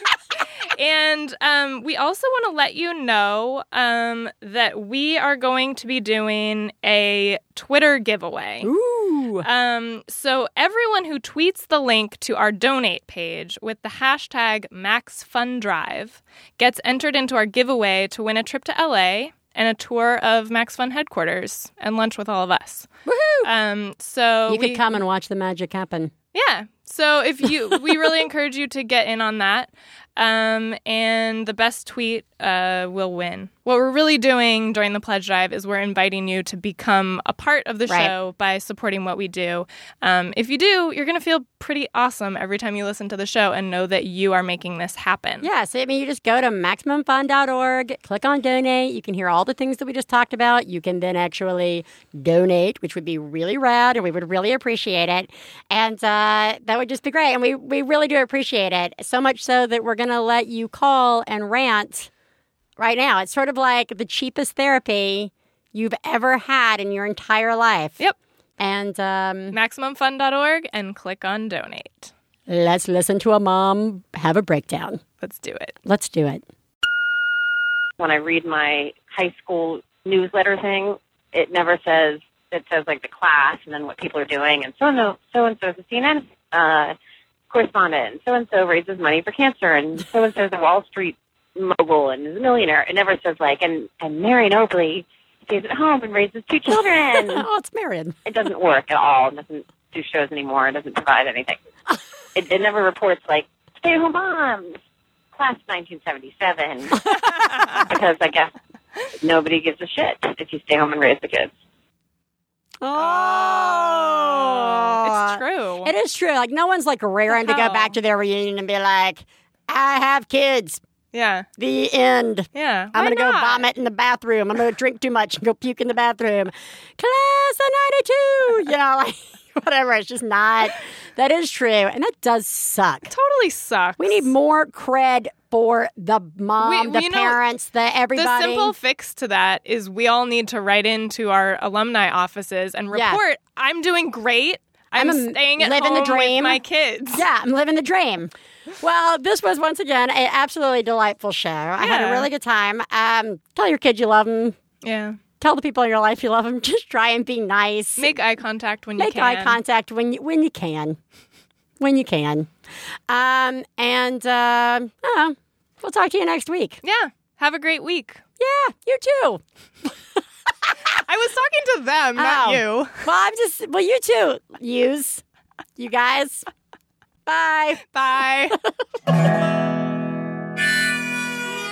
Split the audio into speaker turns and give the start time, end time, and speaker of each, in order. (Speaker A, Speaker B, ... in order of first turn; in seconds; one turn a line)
Speaker A: 0.6-8.7
Speaker B: 8.6-9.4
Speaker A: 9.4-22.9
Speaker B: 23.1-23.5
Speaker A: 23.4-24.8
Speaker B: 24.5-26.1
Speaker A: 26.3-45.5
Speaker B: 37.9-38.1
Speaker B: 45.4-62.1
Speaker B: 62.8-68.0
Speaker B: 68.6-69.5
Speaker A: 69.5-72.1
Speaker B: 72.5-75.0
Speaker A: 75.2-75.7
Speaker B: 75.8-76.4
Speaker C: 78.0-87.0
Speaker C: 87.5-97.5
Speaker B: 97.2-98.2
Speaker C: 98.2-101.6
Speaker C: 102.3-104.8
Speaker C: 105.3-107.0
Speaker A: 107.1-107.8
Speaker C: 107.8-108.5
Speaker C: 109.2-111.5
Speaker B: 112.8-120.8
Speaker A: 113.0-115.9
Speaker A: 117.3-117.9
Speaker A: 121.1-121.5
Speaker B: 121.6-133.1
Speaker A: 122.5-123.7
Speaker A: 133.1-134.3
Speaker B: 134.0-138.7
Speaker A: 136.6-137.4
Speaker A: 138.1-147.2
Speaker B: 142.9-143.2
Speaker B: 144.9-146.6
Speaker B: 147.1-154.6
Speaker A: 151.8-152.3
Speaker A: 154.8-155.2
Speaker B: 155.4-158.2
Speaker A: 158.0-159.6
Speaker B: 159.0-161.0
Speaker B: 161.8-162.5
Speaker B: 163.1-166.8
Speaker A: 166.8-168.2
Speaker B: 168.4-169.4
Speaker A: 170.9-173.1
Speaker B: 172.2-175.2
Speaker B: 175.8-176.4
Speaker B: 177.3-177.8
Speaker A: 177.9-178.6